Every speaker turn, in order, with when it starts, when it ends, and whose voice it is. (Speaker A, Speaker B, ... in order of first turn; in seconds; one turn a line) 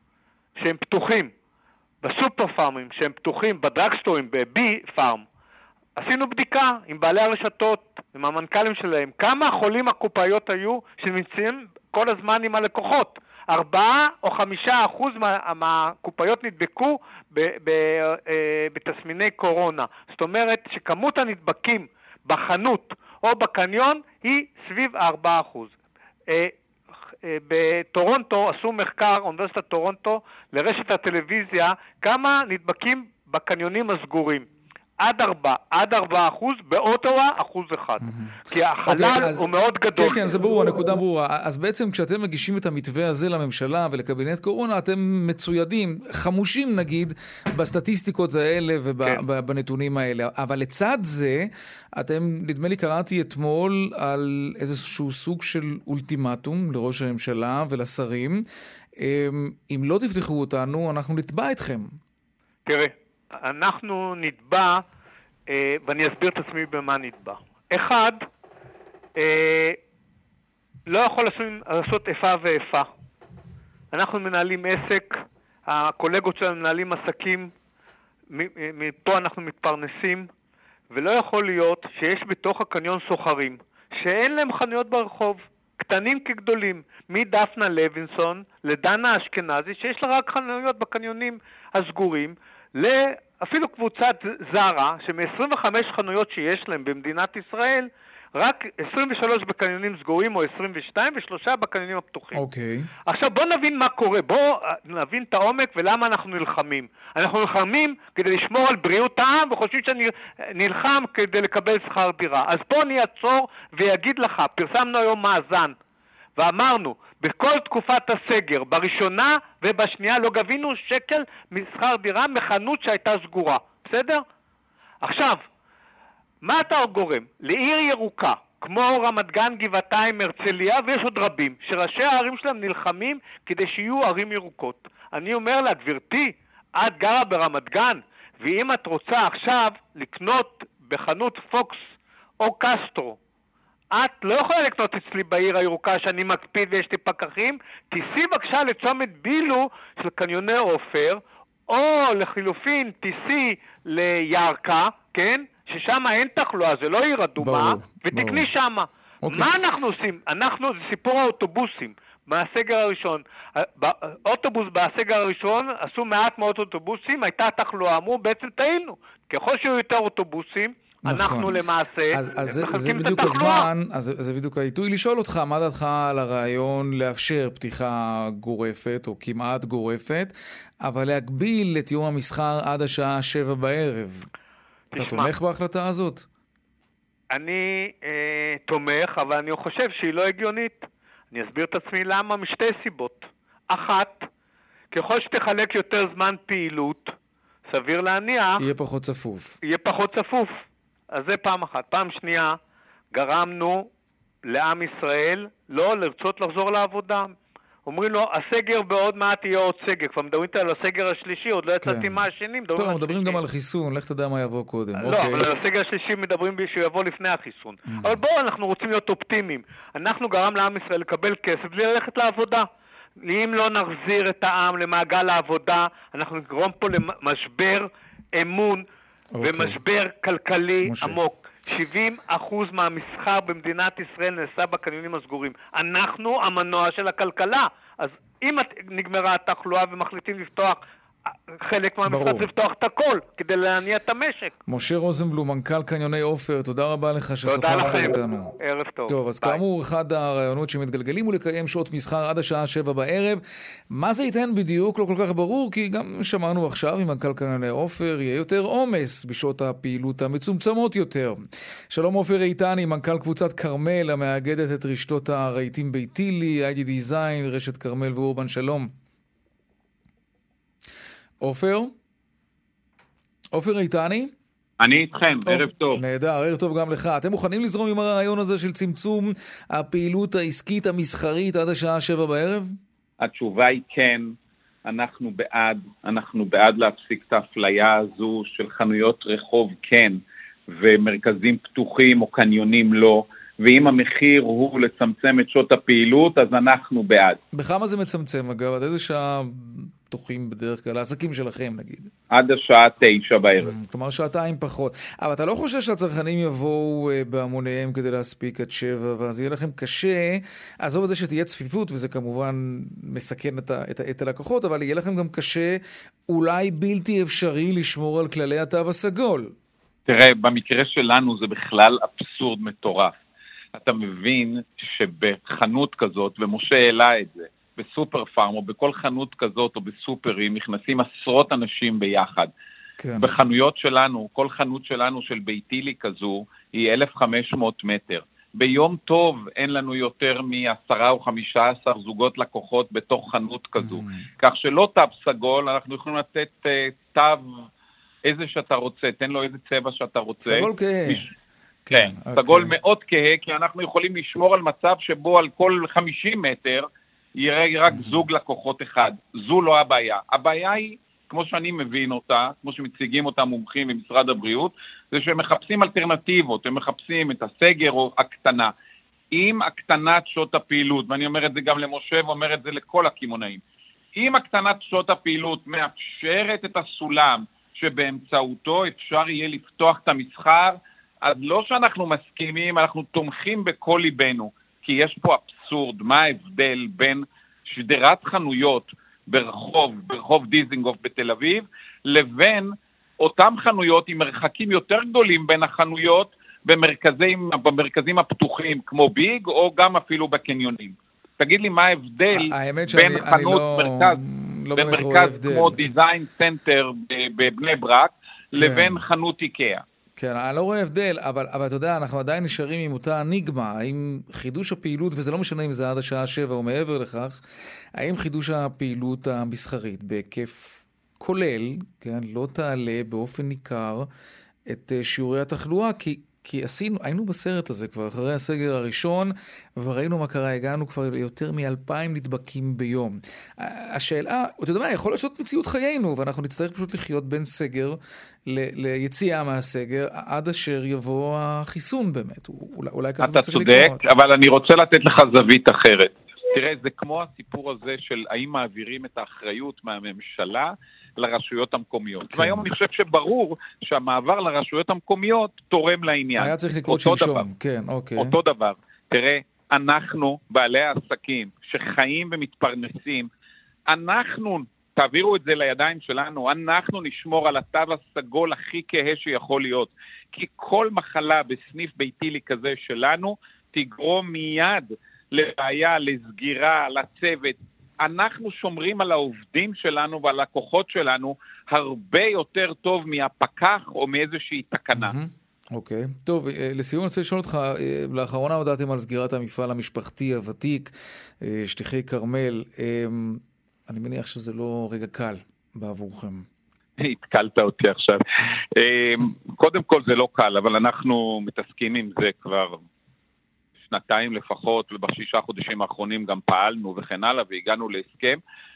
Speaker A: 0.6-1.3
Speaker A: 2.0-5.2
Speaker A: 6.0-25.7
Speaker A: 26.3-26.5
Speaker A: 27.2-34.5
Speaker A: 35.0-40.9
Speaker B: 38.0-58.4
Speaker B: 59.0-61.9
Speaker A: 62.6-64.8
Speaker A: 65.5-68.2
Speaker A: 69.2-69.8
Speaker A: 70.9-72.9
Speaker A: 73.9-75.1
Speaker A: 75.7-77.5
Speaker A: 78.3-80.3
Speaker A: 80.9-102.4
Speaker B: 102.3-102.9
Speaker A: 103.1-115.7
Speaker A: 116.4-124.2
Speaker A: 125.0-125.4
Speaker A: 126.4-141.8
Speaker A: 142.4-143.2
Speaker A: 143.9-173.7
Speaker B: 157.4-158.5
Speaker B: 159.2-159.5
Speaker B: 171.1-171.6
Speaker B: 172.1-184.2
Speaker B: 184.9-186.3
Speaker A: 184.9-185.3
Speaker A: 187.3-194.2
Speaker A: 194.9-197.1
Speaker A: 197.7-198.6
Speaker B: 198.6-199.6
Speaker A: 199.7-200.5
Speaker A: 201.1-202.5
Speaker A: 203.1-203.9
Speaker A: 204.4-207.3
Speaker A: 207.8-213.4
Speaker B: 211.8-212.2
Speaker B: 212.7-215.5
Speaker A: 215.0-222.7
Speaker B: 217.9-218.2
Speaker A: 223.2-228.8
Speaker B: 229.3-229.8
Speaker A: 229.4-240.8
Speaker B: 230.8-231.2
Speaker A: 241.6-244.6
Speaker B: 242.1-242.5
Speaker B: 244.7-248.5
Speaker A: 247.4-249.6
Speaker B: 249.1-268.9
Speaker B: 271.4-271.9
Speaker B: 273.5-274.3
Speaker C: 274.8-276.0
Speaker B: 275.5-282.8
Speaker C: 283.2-284.3
Speaker C: 284.8-297.4
Speaker B: 297.5-302.1
Speaker C: 302.3-303.7
Speaker B: 303.6-319.5
Speaker C: 320.1-323.1
Speaker C: 323.8-332.5
Speaker B: 333.0-333.3
Speaker C: 333.2-347.4
Speaker B: 343.8-344.2
Speaker C: 348.2-351.3
Speaker B: 350.4-351.2
Speaker B: 351.9-352.7
Speaker C: 351.9-356.9
Speaker C: 357.4-368.7
Speaker B: 357.9-358.2
Speaker C: 369.3-373.6
Speaker C: 374.1-404.2
Speaker B: 402.3-405.8
Speaker C: 404.8-409.8
Speaker B: 408.6-409.0
Speaker B: 410.1-417.4
Speaker B: 417.9-424.1
Speaker B: 424.7-444.0
Speaker C: 443.2-457.4
Speaker B: 452.3-452.6
Speaker B: 456.4-458.3
Speaker C: 458.2-463.3
Speaker C: 463.9-485.1
Speaker B: 484.9-496.5
Speaker C: 497.0-498.2
Speaker C: 498.8-502.8
Speaker C: 503.9-508.4